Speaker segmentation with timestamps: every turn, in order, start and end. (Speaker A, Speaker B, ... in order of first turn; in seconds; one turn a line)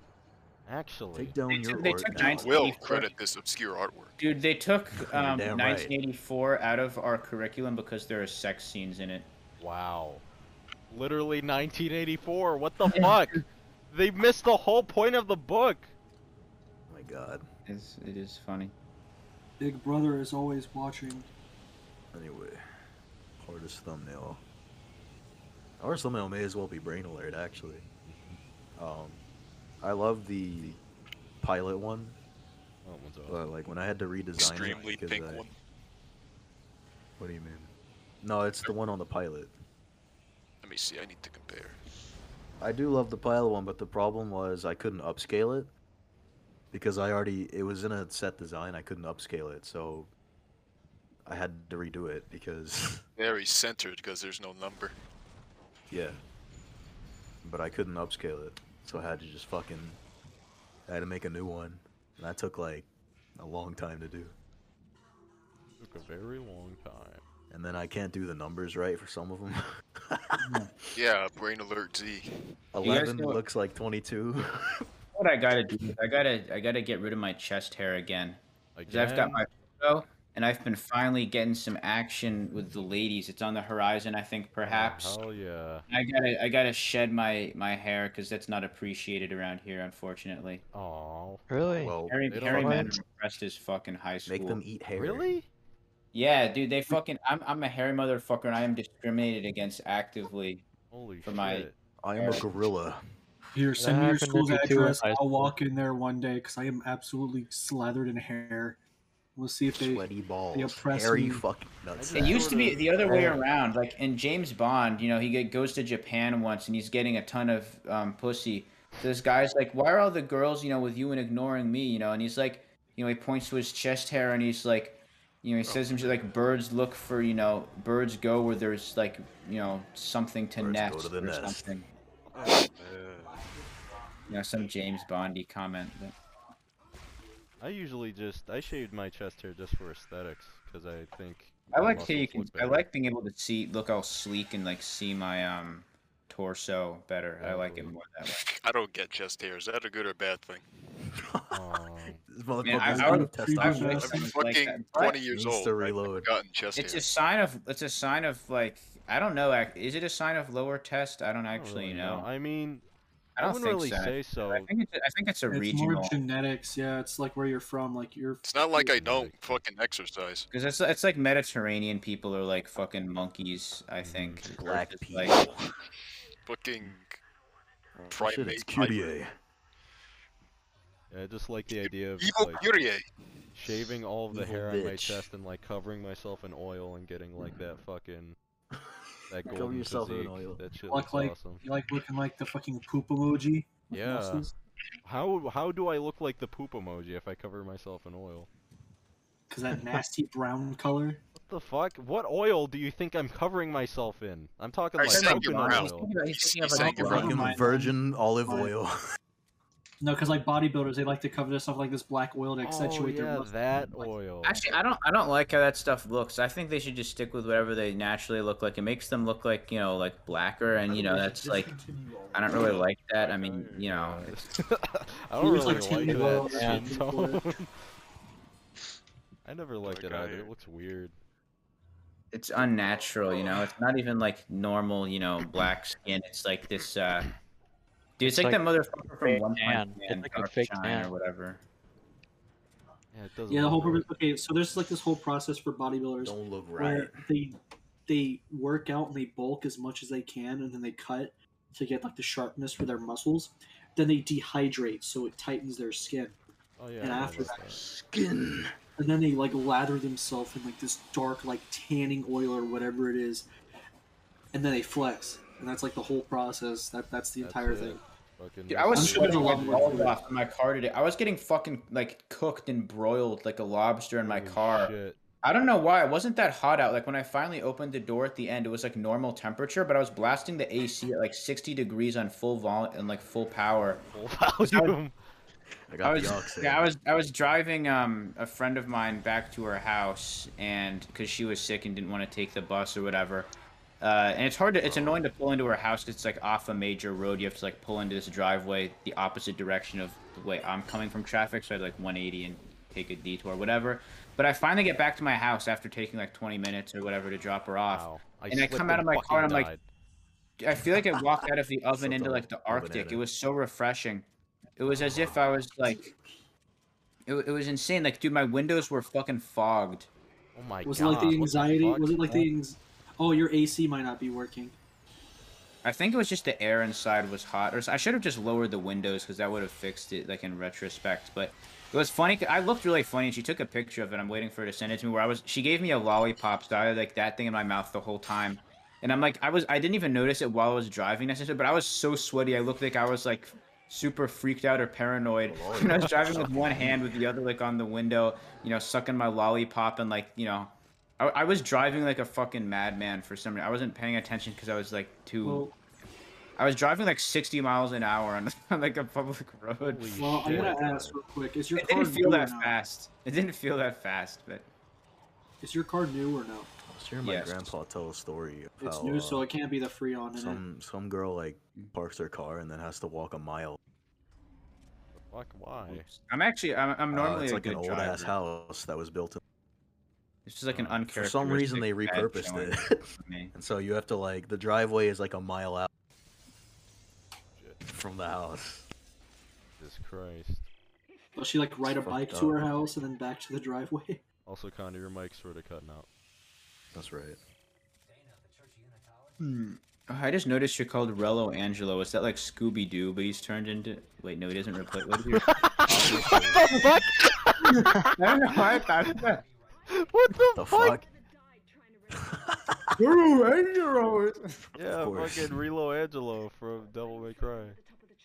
Speaker A: 0.7-1.4
Speaker B: 1.1-2.6
Speaker C: 1.5-3.1
Speaker D: 2.2-4.2
Speaker C: 4.2-9.3
Speaker B: 5.1-5.9
Speaker A: 9.6-10.2
Speaker A: 10.9-15.9
Speaker B: 16.9-17.5
Speaker C: 17.7-18.7
Speaker E: 19.6-21.3
Speaker B: 22.1-22.6
Speaker B: 23.4-24.4
Speaker B: 25.8-27.9
Speaker A: 28.1-28.4
Speaker B: 28.8-29.2
Speaker B: 29.8-30.8
Speaker B: 31.4-32.2
Speaker A: 32.9-33.4
Speaker B: 33.3-35.5
Speaker D: 34.4-35.5
Speaker B: 37.2-39.5
Speaker D: 40.6-41.8
Speaker B: 42.6-45.7
Speaker B: 46.7-50.1
Speaker B: 51.3-53.0
Speaker D: 53.2-54.9
Speaker B: 55.9-56.2
Speaker B: 57.4-60.0
Speaker B: 60.9-64.3
Speaker A: 65.8-67.2
Speaker B: 67.5-70.7
Speaker C: 70.4-70.7
Speaker D: 71.0-72.3
Speaker B: 72.7-74.8
Speaker C: 72.8-73.4
Speaker C: 75.1-85.2
Speaker A: 78.8-79.5
Speaker A: 84.7-85.8
Speaker C: 85.9-90.6
Speaker A: 90.7-91.5
Speaker F: 91.5-92.0
Speaker B: 91.8-92.2
Speaker C: 92.1-94.6
Speaker A: 92.3-93.0
Speaker F: 92.5-93.0
Speaker B: 94.3-95.3
Speaker A: 95.0-95.5
Speaker C: 96.1-100.7
Speaker A: 100.9-101.8
Speaker C: 101.2-102.5
Speaker B: 102.0-103.0
Speaker E: 103.5-108.8
Speaker F: 103.8-105.5
Speaker E: 109.4-111.4
Speaker B: 109.7-112.5
Speaker A: 112.0-113.4
Speaker C: 112.1-131.9
Speaker F: 113.1-113.4
Speaker B: 130.6-131.6
Speaker G: 132.3-133.5
Speaker C: 134.3-136.2
Speaker A: 137.6-142.9
Speaker C: 141.7-148.4
Speaker A: 147.4-147.9
Speaker D: 148.2-150.6
Speaker B: 151.2-151.7
Speaker A: 151.5-152.3
Speaker B: 152.3-154.2
Speaker C: 152.6-155.2
Speaker E: 152.7-154.3
Speaker D: 154.0-157.1
Speaker B: 155.3-156.3
Speaker C: 156.8-162.3
Speaker A: 161.5-162.8
Speaker C: 163.4-166.2
Speaker A: 163.4-164.7
Speaker E: 165.5-168.9
Speaker D: 168.4-170.5
Speaker A: 169.0-169.6
Speaker C: 170.5-175.4
Speaker A: 174.0-174.6
Speaker B: 174.6-175.6
Speaker D: 176.5-177.2
Speaker B: 178.1-179.3
Speaker D: 178.1-179.2
Speaker A: 181.1-182.7
Speaker D: 181.8-183.1
Speaker A: 183.6-188.4
Speaker B: 184.3-185.3
Speaker A: 189.3-191.6
Speaker B: 189.4-190.6
Speaker E: 190.9-194.5
Speaker A: 193.9-194.5
Speaker A: 195.0-198.5
Speaker E: 199.5-201.2
Speaker A: 201.3-206.1
Speaker D: 205.0-207.4
Speaker C: 205.1-207.4
Speaker E: 206.7-208.7
Speaker B: 207.1-208.9
Speaker E: 210.0-213.5
Speaker A: 212.6-214.7
Speaker C: 214.4-221.8
Speaker B: 220.9-221.6
Speaker C: 222.3-224.4
Speaker G: 222.5-224.3
Speaker A: 223.9-227.8
Speaker E: 225.4-227.4
Speaker F: 226.3-226.9
Speaker A: 229.4-231.2
Speaker G: 229.8-230.5
Speaker C: 232.3-237.3
Speaker C: 238.2-241.6
Speaker F: 238.2-238.6
Speaker F: 239.2-241.1
Speaker A: 243.1-244.1
Speaker E: 243.5-256.4
Speaker B: 246.2-247.2
Speaker A: 256.8-257.8
Speaker E: 257.0-257.8
Speaker B: 257.8-258.7
Speaker E: 259.0-263.5
Speaker E: 264.5-268.0
Speaker A: 267.4-270.2
Speaker C: 268.7-284.0
Speaker E: 268.9-270.2
Speaker A: 274.2-275.2
Speaker A: 284.1-285.2
Speaker C: 284.6-284.9
Speaker B: 285.9-286.9
Speaker C: 286.0-309.7
Speaker B: 294.8-295.2
Speaker A: 307.9-309.8
Speaker C: 310.6-316.1
Speaker B: 311.9-313.2
Speaker B: 315.1-315.3
Speaker C: 317.3-320.1
Speaker A: 320.6-322.5
Speaker E: 320.8-324.8
Speaker C: 325.8-355.7
Speaker B: 345.4-347.2
Speaker E: 355.4-355.7
Speaker C: 356.6-360.2
Speaker A: 359.8-360.8
Speaker E: 360.1-362.8
Speaker B: 360.5-361.2
Speaker C: 361.8-364.7
Speaker E: 365.6-366.7
Speaker B: 366.9-369.5
Speaker C: 367.2-367.7
Speaker E: 368.8-370.6
Speaker B: 370.3-373.8
Speaker A: 375.2-376.1
Speaker C: 375.9-378.4
Speaker B: 377.1-379.4
Speaker C: 380.5-383.5
Speaker A: 380.7-381.1
Speaker B: 381.1-385.9
Speaker B: 387.9-388.9
Speaker A: 389.8-390.7
Speaker E: 391.4-394.2
Speaker B: 391.8-392.6
Speaker A: 394.5-396.1
Speaker B: 396.9-397.4
Speaker C: 399.4-405.6
Speaker A: 405.3-408.6
Speaker B: 405.9-406.6
Speaker C: 407.7-409.4
Speaker A: 409.9-411.0
Speaker B: 410.6-411.0
Speaker B: 412.1-412.9
Speaker C: 413.0-414.6
Speaker A: 414.8-417.8
Speaker B: 414.9-415.6